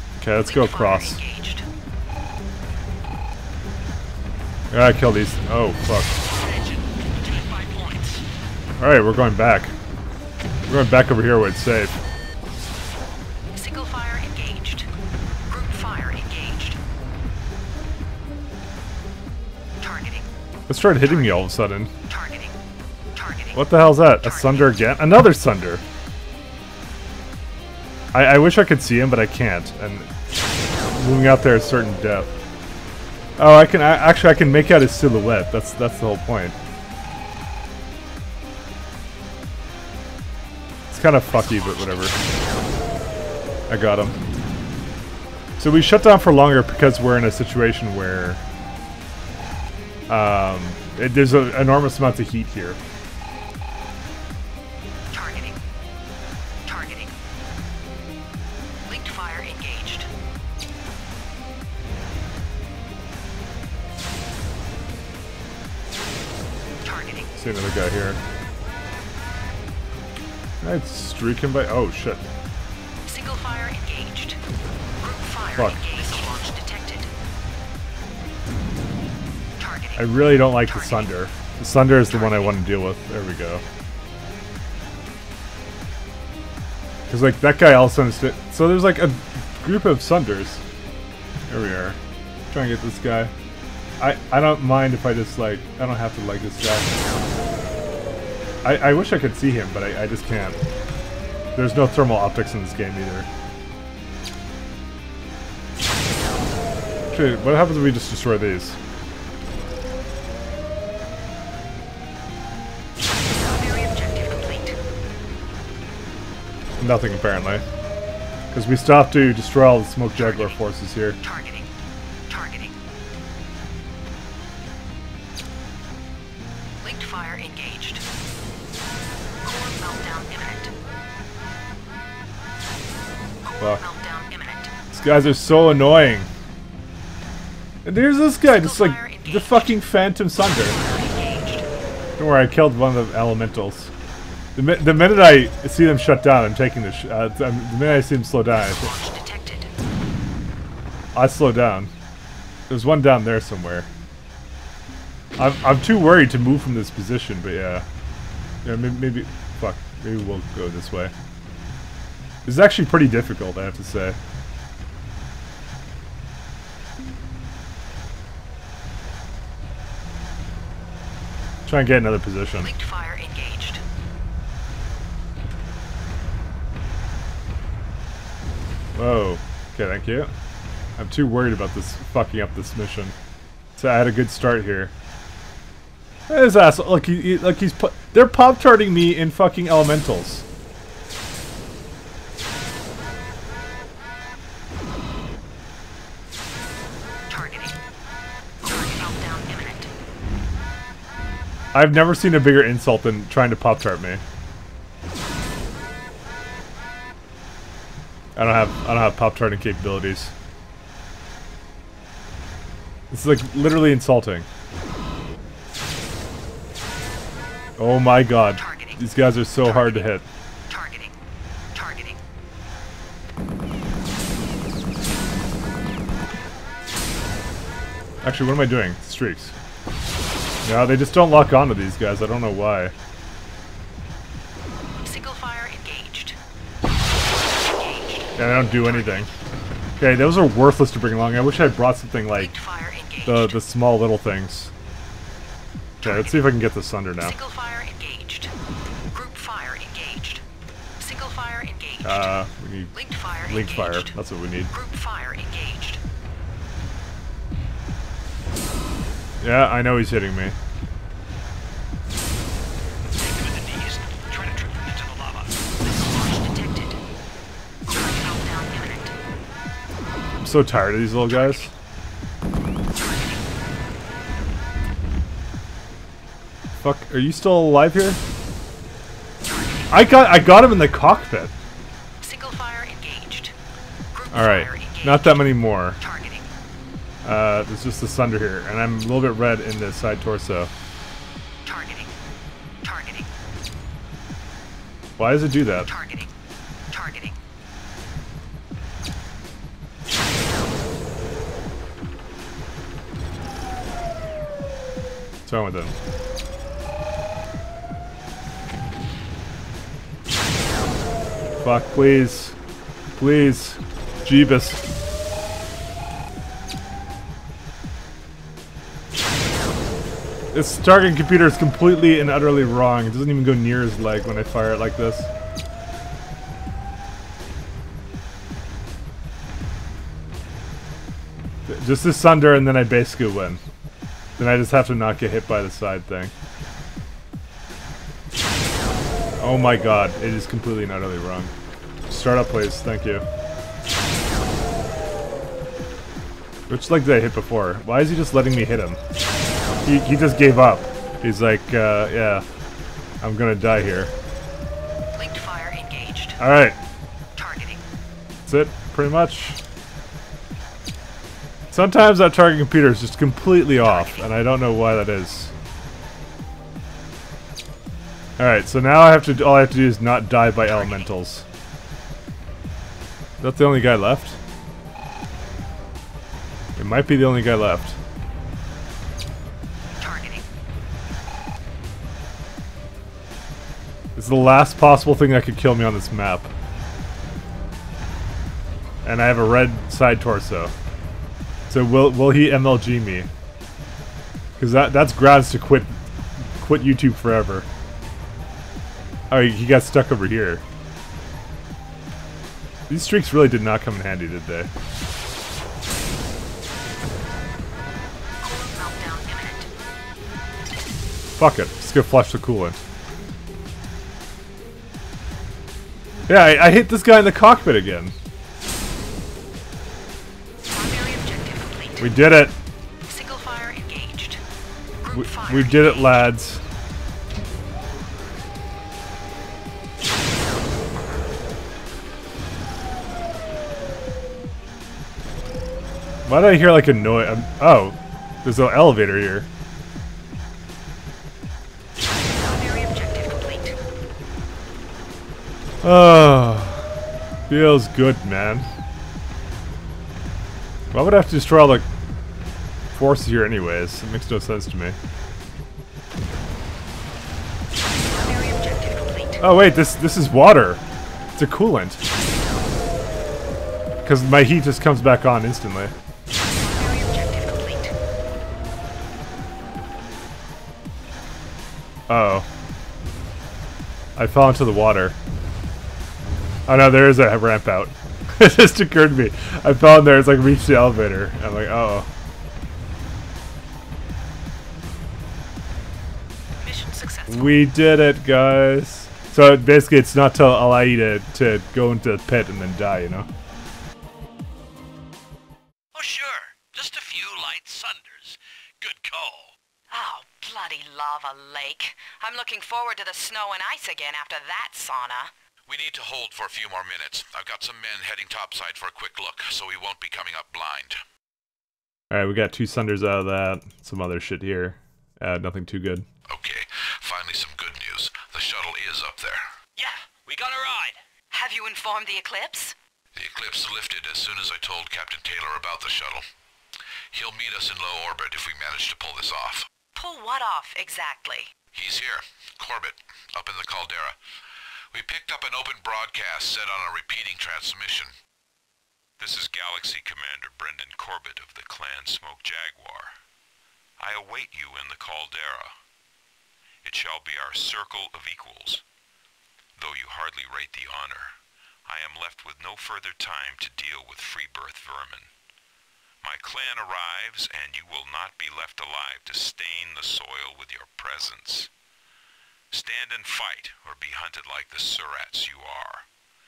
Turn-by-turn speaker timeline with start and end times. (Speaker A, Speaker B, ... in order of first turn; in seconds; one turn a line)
Speaker A: 0.2-1.2
Speaker B: 0.4-1.7
Speaker A: 4.7-6.2
Speaker C: 6.1-8.2
Speaker A: 8.8-9.7
Speaker A: 10.7-11.9
Speaker B: 13.5-14.9
Speaker B: 15.5-16.8
Speaker B: 19.8-20.3
Speaker A: 20.7-21.9
Speaker B: 22.1-22.5
Speaker A: 23.5-25.8
Speaker A: 28.1-30.1
Speaker A: 30.9-32.4
Speaker A: 33.4-36.6
Speaker A: 40.9-42.2
Speaker B: 41.3-42.3
Speaker A: 43.7-44.2
Speaker A: 45.6-48.4
Speaker A: 50.1-52.8
Speaker B: 55.1-55.6
Speaker B: 56.6-57.1
Speaker B: 58.9-60.1
Speaker B: 66.8-67.3
Speaker A: 67.3-68.2
Speaker A: 70.6-72.2
Speaker B: 73.0-74.4
Speaker B: 75.0-77.1
Speaker A: 75.6-76.0
Speaker B: 79.6-81.1
Speaker A: 80.0-83.6
Speaker B: 82.2-82.5
Speaker A: 87.1-90.6
Speaker A: 91.5-92.0
Speaker A: 92.5-93.3
Speaker A: 94.0-96.9
Speaker A: 98.6-100.6
Speaker A: 101.5-103.3
Speaker A: 107.1-108.8
Speaker B: 113.3-114.8
Speaker A: 116.8-117.7
Speaker A: 118.5-121.2
Speaker B: 120.2-120.6
Speaker B: 121.2-121.7
Speaker B: 122.3-122.7
Speaker B: 126.8-128.0
Speaker B: 129.4-130.7
Speaker B: 133.4-134.7
Speaker A: 134.9-136.3
Speaker A: 137.8-140.8
Speaker B: 138.4-139.8
Speaker B: 140.4-141.7
Speaker A: 142.2-143.9
Speaker A: 144.6-148.9
Speaker B: 148.7-149.7
Speaker A: 151.1-151.9
Speaker A: 152.7-153.9
Speaker A: 155.4-157.9
Speaker A: 158.6-161.1
Speaker A: 162.4-164.2
Speaker A: 171.7-172.7
Speaker B: 172.6-173.8
Speaker A: 178.9-180.3
Speaker A: 181.0-183.2
Speaker A: 183.8-184.9
Speaker A: 186.3-190.4
Speaker B: 197.3-197.8
Speaker B: 198.6-199.9
Speaker A: 201.7-204.2
Speaker A: 208.4-210.3
Speaker A: 213.1-214.5
Speaker A: 217.8-220.2
Speaker B: 219.6-220.1
Speaker B: 220.7-221.1
Speaker B: 221.7-222.2
Speaker A: 228.2-229.6
Speaker A: 230.6-232.9
Speaker B: 235.0-236.4
Speaker B: 237.1-239.3
Speaker A: 238.4-239.3
Speaker A: 240.0-242.5
Speaker B: 242.3-243.6
Speaker A: 243.3-244.7
Speaker B: 246.0-246.6
Speaker A: 246.0-247.4
Speaker B: 247.2-248.5
Speaker B: 249.1-250.4
Speaker B: 251.0-254.2
Speaker A: 252.0-252.9
Speaker A: 253.5-254.7
Speaker B: 254.7-256.0
Speaker A: 259.4-260.6
Speaker C: 263.1-265.6
Speaker B: 265.8-267.0
Speaker B: 267.9-269.1
Speaker A: 270.4-271.7
Speaker B: 271.4-271.7
Speaker B: 272.9-273.4
Speaker A: 276.8-278.2
Speaker A: 279.9-281.5
Speaker B: 282.2-283.5
Speaker B: 284.1-286.4
Speaker A: 284.3-286.0
Speaker A: 287.2-290.7
Speaker B: 291.7-292.0
Speaker B: 292.8-293.1
Speaker A: 295.2-295.9
Speaker B: 295.9-296.3
Speaker B: 296.9-297.3
Speaker A: 305.4-305.9
Speaker A: 311.6-312.6
Speaker A: 313.1-314.8
Speaker A: 320.5-325.3
Speaker A: 331.7-333.6
Speaker A: 334.4-336.3
Speaker A: 339.4-341.5
Speaker A: 342.1-343.3
Speaker A: 346.7-349.0
Speaker A: 349.9-352.4
Speaker A: 353.2-354.1
Speaker B: 355.1-356.4
Speaker A: 356.4-356.8
Speaker B: 357.4-357.8
Speaker A: 358.5-359.6
Speaker A: 361.7-365.5
Speaker B: 363.8-364.3
Speaker A: 368.4-371.5
Speaker A: 373.4-374.4
Speaker A: 376.8-378.0
Speaker B: 380.0-380.4
Speaker A: 384.1-386.5
Speaker A: 389.0-390.7
Speaker A: 391.7-393.3
Speaker A: 394.6-397.7
Speaker A: 399.3-400.6
Speaker A: 402.9-404.7
Speaker B: 408.4-409.7
Speaker A: 411.4-412.8
Speaker A: 416.3-418.1
Speaker B: 420.7-422.4
Speaker A: 422.0-422.6
Speaker B: 423.1-424.4
Speaker B: 425.0-426.3
Speaker A: 425.1-426.6
Speaker A: 436.2-439.5
Speaker B: 442.3-443.8
Speaker A: 445.8-446.9
Speaker A: 447.5-448.7
Speaker A: 450.9-451.9
Speaker A: 452.9-455.0
Speaker B: 458.0-459.4
Speaker A: 459.4-460.8
Speaker A: 461.4-462.0
Speaker A: 464.0-465.9
Speaker B: 466.4-467.9
Speaker A: 472.1-472.5
Speaker A: 474.2-475.2
Speaker A: 476.7-482.1
Speaker B: 486.6-487.7
Speaker A: 487.3-493.3
Speaker C: 495.9-499.6
Speaker B: 499.9-505.3
Speaker D: 505.7-511.0
Speaker A: 512.1-516.1
Speaker D: 516.3-519.5
Speaker C: 519.8-521.0
Speaker B: 521.3-522.8
Speaker D: 523.1-526.2
Speaker D: 527.1-529.7
Speaker B: 529.9-531.5
Speaker D: 531.7-534.2
Speaker D: 534.9-538.1
Speaker E: 539.2-543.1
Speaker E: 544.0-545.8
Speaker E: 546.8-548.8
Speaker E: 549.8-555.3
Speaker E: 556.2-561.7
Speaker E: 562.7-566.1